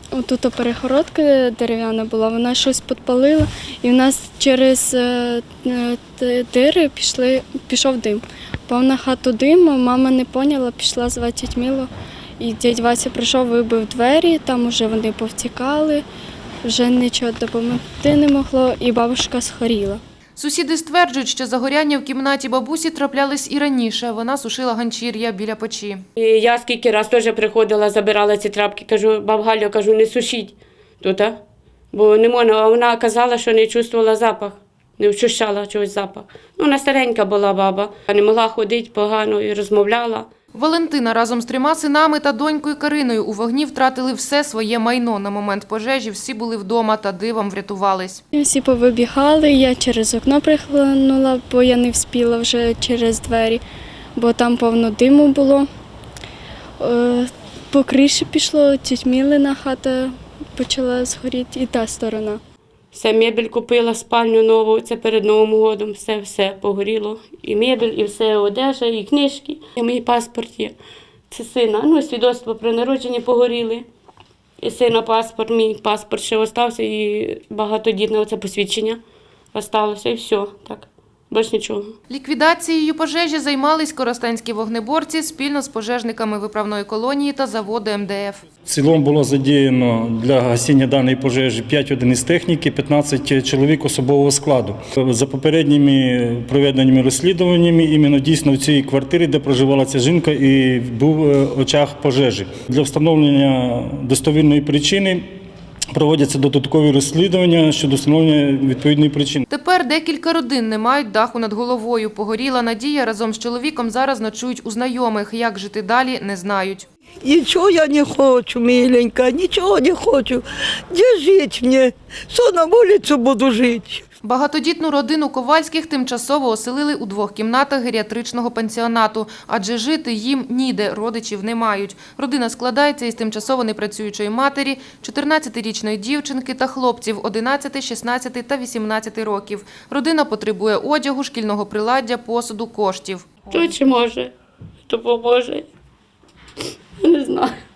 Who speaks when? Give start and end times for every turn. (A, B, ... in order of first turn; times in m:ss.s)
0:00.1-0:16.0 A
0:16.6-0:20.0 A
0:20.4-0:26.0 B
0:26.2-0:31.4 C
0:31.9-0:40.3 C
0:40.5-0:48.2 B
0:48.3-0:53.6 A
0:54.1-0:55.7 A
0:56.8-1:02.4 A
1:02.9-1:10.7 C
1:11.3-1:13.8 C
1:14.6-1:19.0 C
1:19.5-1:21.9 C
1:22.1-1:28.4 B
1:28.6-1:45.2 D
1:45.9-1:49.4 D
1:49.5-1:56.9 B
1:57.2-2:04.0 E
2:04.2-2:23.3 B
2:23.5-2:24.3 C
2:24.9-2:25.6 C
2:27.0-2:27.5 C